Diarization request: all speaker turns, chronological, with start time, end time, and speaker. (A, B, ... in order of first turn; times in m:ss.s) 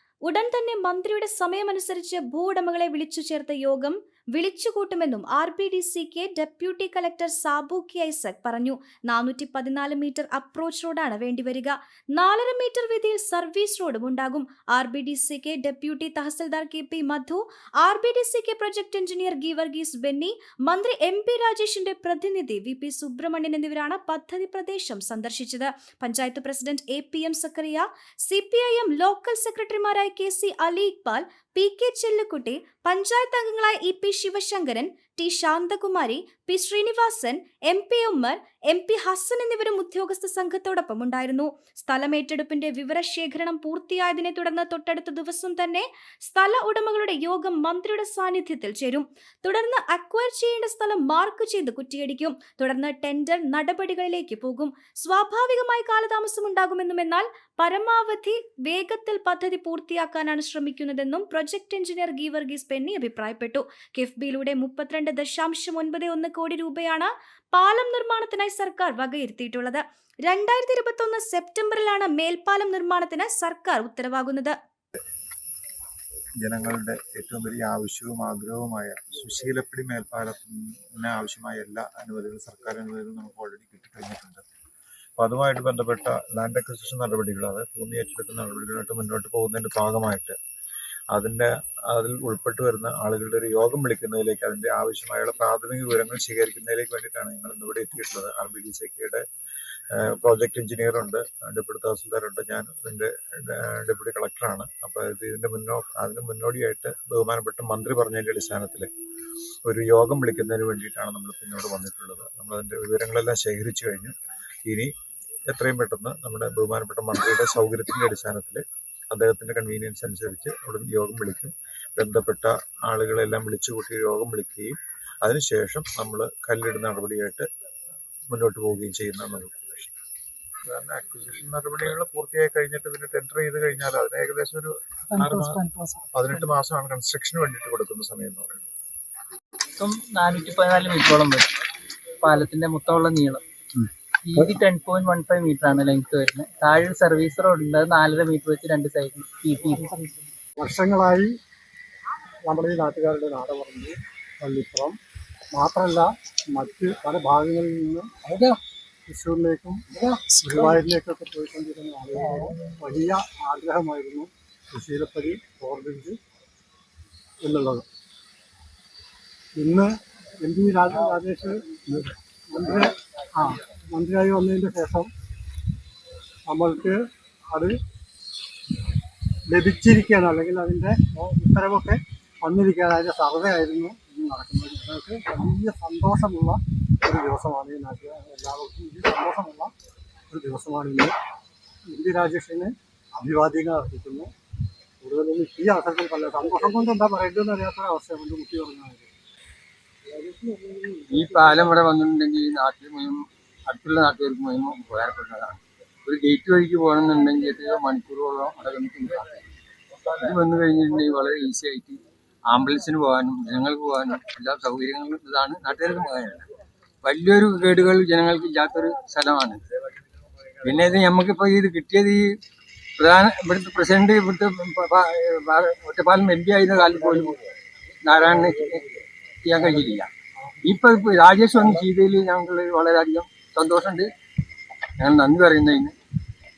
0:00.2-1:14.6 A
1:16.4-1:24.4 B
1:25.2-1:30.4 B
1:31.1-1:39.2 B
1:39.9-1:48.9 B
1:49.6-1:54.1 B
1:54.6-1:54.9 B
1:55.5-2:07.5 B
2:08.3-2:09.9 B
2:10.6-2:18.7 B
2:19.8-2:21.5 C
2:22.2-2:30.1 C
2:30.6-2:31.3 D
2:32.5-2:35.0 D
2:35.5-2:38.1 D
2:38.3-2:38.6 E
2:39.1-2:39.8 D
2:40.0-2:40.4 E
2:40.3-2:46.2 D
2:47.4-2:47.8 D
2:49.6-2:55.1 D
2:56.5-2:57.7 D
2:59.5-3:09.7 D
3:10.3-3:11.1 D
3:11.9-3:14.3 D
3:15.0-3:19.1 D
3:21.0-3:29.4 E
3:30.1-3:36.5 E
3:37.0-3:39.6 E
3:40.6-3:42.2 E
3:43.0-3:47.4 E
3:48.0-3:50.1 E
3:50.6-3:54.1 E
3:55.0-3:55.9 E